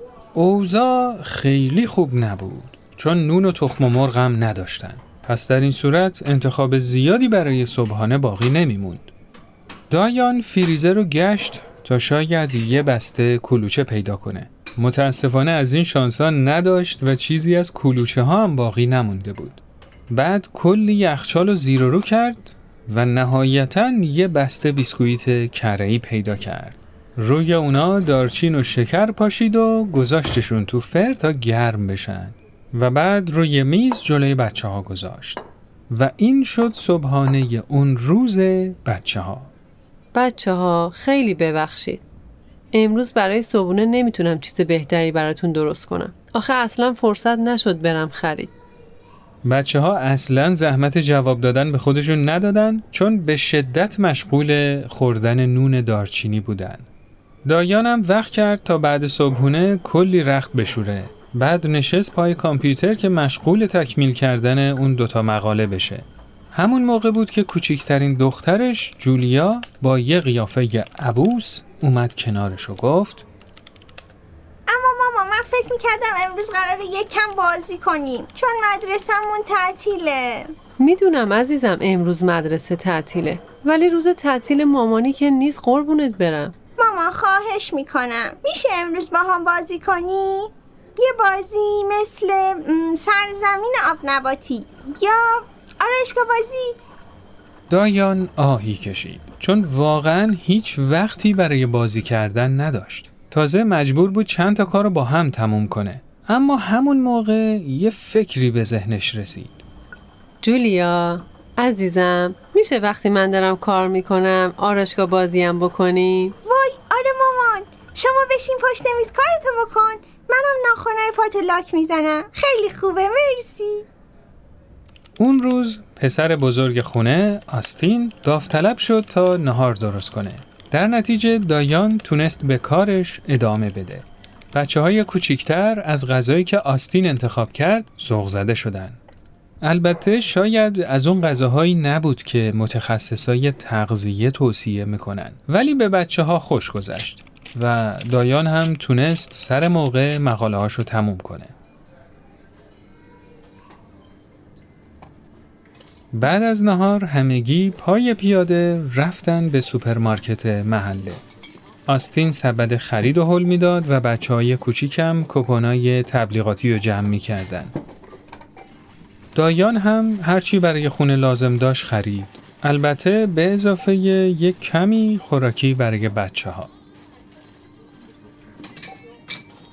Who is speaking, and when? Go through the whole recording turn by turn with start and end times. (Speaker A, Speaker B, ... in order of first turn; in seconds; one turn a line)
Speaker A: 0.3-9.1
Speaker A: 9.9-39.5
Speaker B: 40.1-42.0
Speaker B: 42.7-48.5
Speaker A: 49.4-56.9
Speaker A: 57.4-73.2
Speaker C: 74.7-80.5
Speaker B: 80.8-86.5
Speaker C: 86.8-96.7
Speaker A: 97.7-109.6
Speaker B: 110.4-116.3
Speaker C: 116.4-123.8
Speaker A: 125.2-139.0
Speaker A: 139.6-151.5
Speaker A: 156.1-161.2
Speaker A: 161.9-167.8
Speaker A: 169.3-176.7